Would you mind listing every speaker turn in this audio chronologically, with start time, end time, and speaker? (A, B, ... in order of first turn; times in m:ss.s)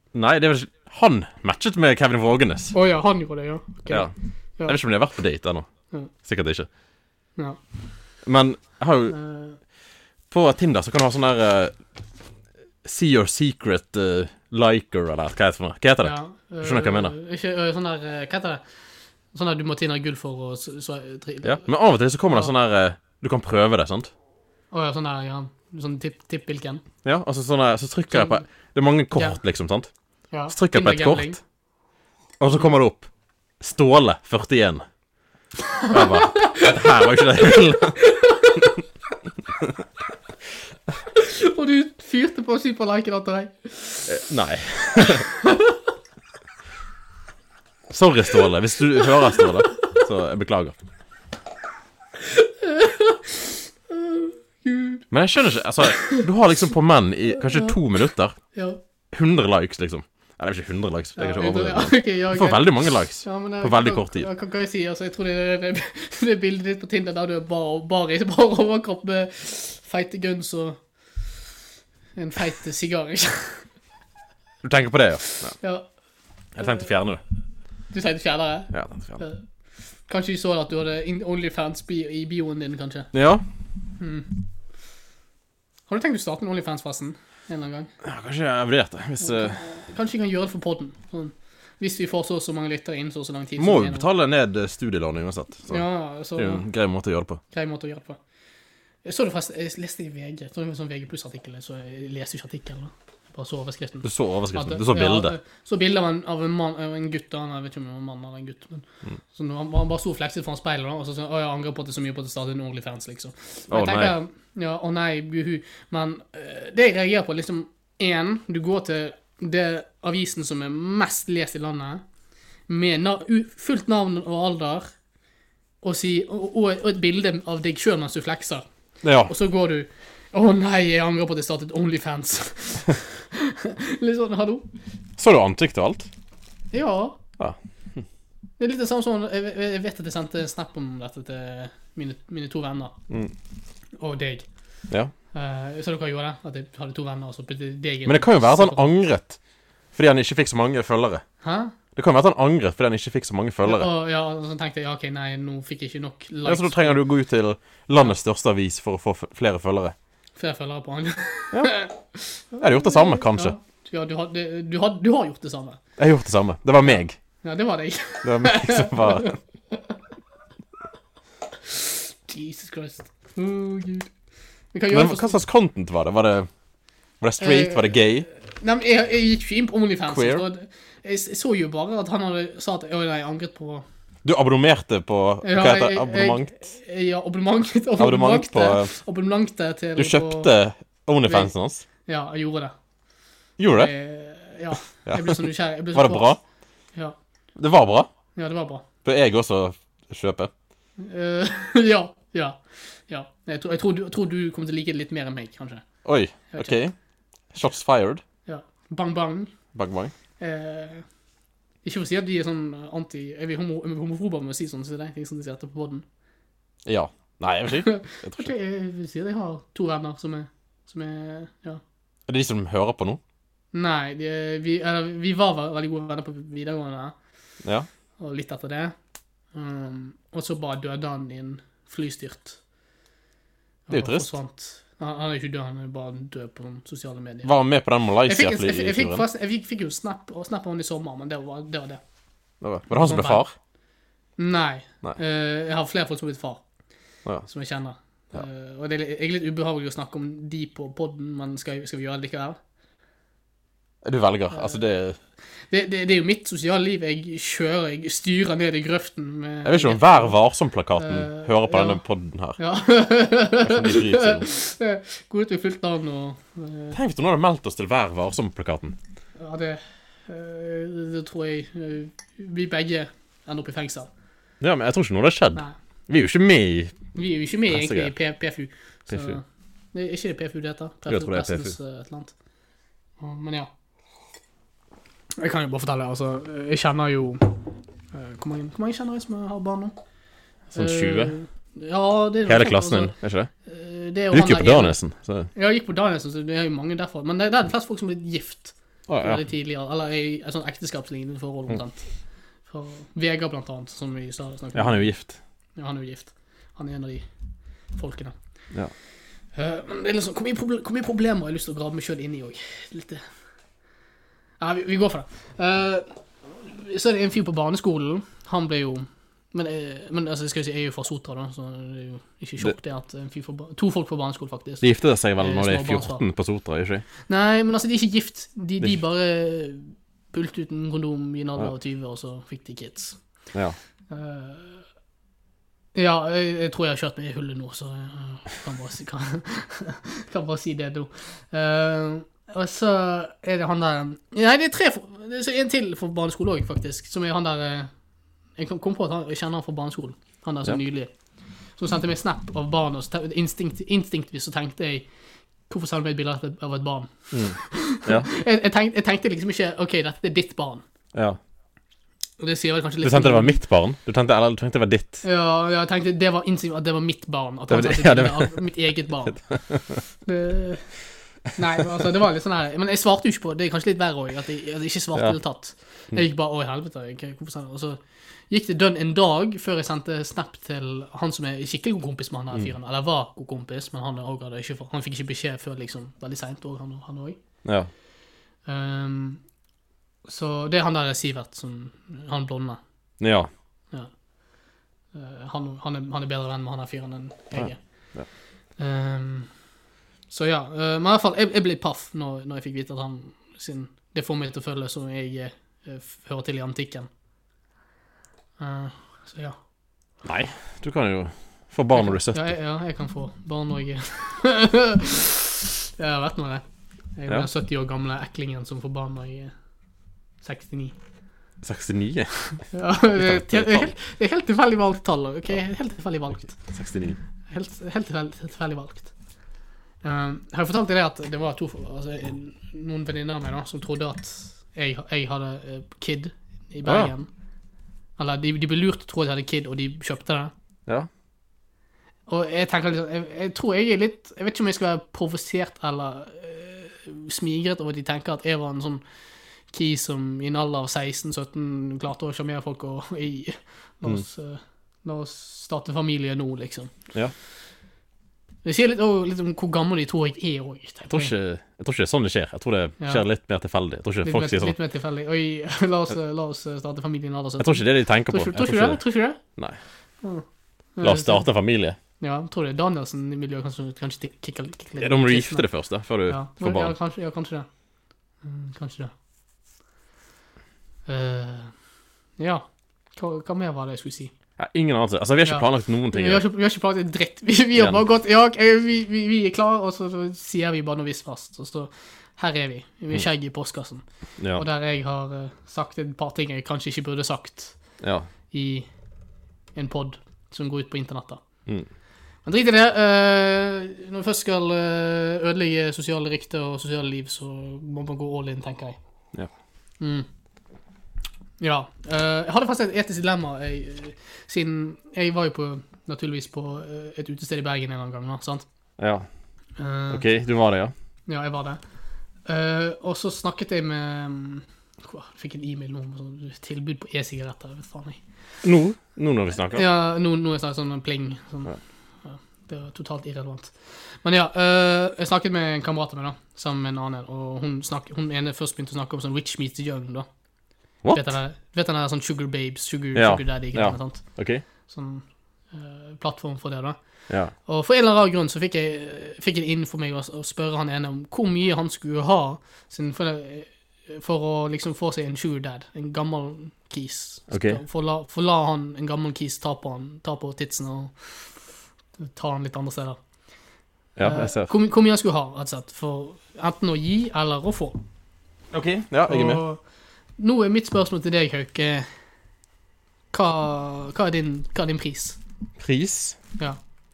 0:00.1-0:02.8 A
0:02.7-0:04.8 B
0:04.7-0:06.7 A
0:08.2-0:09.2 A
0:09.1-0:09.6 B
0:10.3-0:11.8 A
0:12.8-0:17.1 A
0:16.0-0:18.6 B
0:19.3-0:21.7 B
0:21.4-0:24.1 A
0:24.7-0:26.8 B
0:27.0-0:29.9 A
0:28.1-0:28.4 B
0:30.3-0:31.4 B
0:30.5-0:31.4 A
0:32.4-0:33.1 A
0:33.6-0:34.8 A
0:35.7-0:38.8 B
0:35.9-0:38.0 A
0:41.1-0:44.2 B
0:44.1-0:45.3 A
0:44.9-0:45.8 B
0:47.9-0:50.8 A
0:52.2-0:55.1 B
0:55.1-0:58.4 A
0:55.9-0:56.3 B
0:57.4-0:57.8 B
0:58.5-0:58.8 B
0:59.1-1:04.3 A
1:01.2-1:10.8 B
1:12.2-1:13.7 B
1:14.6-1:15.5 A
1:15.3-1:15.9 B
1:16.6-1:17.2 A
1:17.9-1:19.4 B
1:18.7-1:19.2 A
1:20.1-1:23.1 B
1:23.1-1:23.4 A
1:24.0-1:24.4 B
1:25.9-1:27.9 B
1:28.0-1:29.6 A
1:29.2-1:34.1 B
1:33.6-1:35.8 A
1:35.7-1:36.6 B
1:36.4-1:37.4 A
1:37.5-1:38.2 B
1:39.0-2:02.0 B
1:44.0-1:45.4 A
1:53.7-1:54.2 A
2:02.7-2:04.9 B
2:05.8-2:08.6 B
2:09.0-2:09.3 A
2:09.2-2:14.7 B
2:15.2-2:16.1 A
2:16.7-2:17.2 B
2:17.4-2:18.0 A
2:18.6-2:23.0 B
2:24.0-2:24.5 B
2:25.3-2:28.9 B
2:28.1-2:29.4 A
2:29.9-2:31.2 A
2:31.4-2:31.7 B
2:32.0-2:33.9 A
2:33.6-2:37.0 B
2:36.4-2:40.0 A
2:40.4-2:45.8 B
2:42.6-2:43.6 A
2:46.0-2:47.2 A
2:46.8-2:50.0 B
2:48.2-2:49.3 A
2:51.6-2:54.1 B
2:54.7-2:55.4 B
2:54.9-2:56.5 A
2:57.2-2:58.3 A
2:57.4-3:03.8 B
3:00.1-3:00.4 A
3:04.2-3:06.6 A
3:05.4-3:10.5 B
3:08.0-3:08.9 A
3:10.0-3:11.8 A
3:11.3-3:11.5 B
3:12.0-3:12.7 B
3:13.6-3:13.9 A
3:13.8-3:16.3 B
3:15.1-3:16.4 A
3:17.6-3:18.1 A
3:18.4-3:18.8 B
3:19.0-3:20.5 A
3:21.0-3:25.8 B
3:26.0-3:26.9 A
3:26.5-3:26.8 B
3:27.5-3:28.2 A
3:28.5-3:29.5 B
3:29.8-3:30.1 A
3:30.4-3:31.0 B
3:31.8-3:36.0 B
3:36.8-3:38.5 A
3:37.8-3:41.8 B
3:42.3-3:43.2 A
3:43.7-3:47.2 B
3:48.2-3:48.9 B
3:49.5-3:52.6 B
3:53.9-3:57.5 B
3:53.9-3:54.3 A
3:57.4-3:59.3 A
3:58.2-4:02.0 B
4:02.6-4:03.5 A
4:02.9-4:03.4 B
4:04.4-4:06.6 B
4:07.5-4:12.6 B
4:14.0-4:15.2 A
4:14.5-4:14.8 B
4:15.7-4:20.4 B
4:19.6-4:22.6 A
4:21.0-4:22.0 B
4:22.6-4:27.0 B
4:23.6-4:24.5 A
4:26.9-4:29.0 A
4:29.4-4:34.1 B
4:34.6-4:37.0 A
4:37.1-4:42.3 B
4:37.7-4:38.1 A
4:39.1-4:39.4 A
4:41.1-4:41.8 A
4:43.2-4:43.7 B
4:45.4-4:47.6 B
4:48.1-4:50.0 B
4:50.7-4:51.4 A
4:50.7-4:55.0 B
4:52.5-4:53.5 A
4:54.3-4:55.5 A
4:55.6-5:02.1 B
4:59.1-4:59.4 A
5:02.7-5:05.1 B
5:04.7-5:05.4 A
5:05.8-5:07.2 B
5:08.0-5:08.4 B
5:09.6-5:13.2 B
5:14.6-5:26.2 B
5:24.8-5:27.0 A
5:27.3-5:33.2 B
5:34.1-5:34.8 B
5:36.0-5:47.9 B
5:48.6-5:51.1 B
5:51.8-5:55.1 B
5:55.7-6:00.8 B
5:57.3-5:58.3 A
6:02.4-6:03.6 B
6:03.0-6:05.2 A
6:05.2-6:09.4 B
6:07.7-6:08.6 A
6:09.5-6:10.0 A
6:10.2-6:10.9 B
6:11.5-6:18.0 B
6:18.5-6:27.4 B
6:27.6-6:27.9 A
6:28.7-6:29.4 B
6:30.3-6:32.8 B
6:33.2-6:33.5 A
6:35.1-6:37.8 B
6:37.6-6:38.3 A
6:38.8-6:39.5 B
6:40.3-6:47.1 B
6:48.6-6:49.6 B
6:50.2-6:52.5 A
6:51.9-6:56.6 B
6:57.2-6:59.5 B
7:00.4-7:01.0 B
7:01.6-7:02.4 A
7:02.7-7:06.6 B
7:03.1-7:03.9 A
7:06.7-7:07.2 A
7:07.5-7:09.1 B
7:10.0-7:17.3 B
7:16.8-7:17.1 A
7:18.2-7:20.5 B
7:22.3-7:29.0 B
7:29.7-7:37.0 B
7:38.6-7:41.3 B
7:41.1-7:44.8 A
7:44.2-7:49.4 B
7:47.6-7:49.8 A
7:51.0-7:51.5 B
7:51.0-7:52.0 A
7:52.2-7:55.7 B
7:55.0-7:57.0 A
7:56.3-7:57.7 B
7:58.4-7:59.1 B
8:01.1-8:01.7 B
8:02.4-8:02.6 B
8:03.2-8:04.3 B
8:04.6-8:06.4 A
8:05.4-8:14.0 B
8:07.8-8:08.0 A
8:14.4-8:14.6 A
8:14.5-8:17.8 B
8:18.0-8:18.3 A
8:18.5-8:18.9 B
8:19.8-8:21.4 B
8:22.4-8:29.0 B
8:30.0-8:30.3 B
8:31.6-8:38.6 B
8:39.0-8:39.3 A
8:39.8-8:40.3 B
8:40.1-8:40.9 A
8:41.3-8:41.8 B
8:42.5-8:48.2 B
8:48.6-8:49.8 A
8:49.7-9:00.3 B
9:01.0-9:01.4 A
9:01.1-9:04.2 B
9:03.2-9:04.6 A
9:04.9-9:07.0 B
9:07.6-9:21.6 B
9:17.5-9:17.8 A
9:22.2-9:23.2 B
9:24.2-9:24.7 A
9:24.2-9:28.0 B
9:28.7-9:29.6 A
9:29.3-9:29.8 B
9:30.4-9:32.1 B
9:33.3-9:35.4 B
9:35.8-9:36.4 A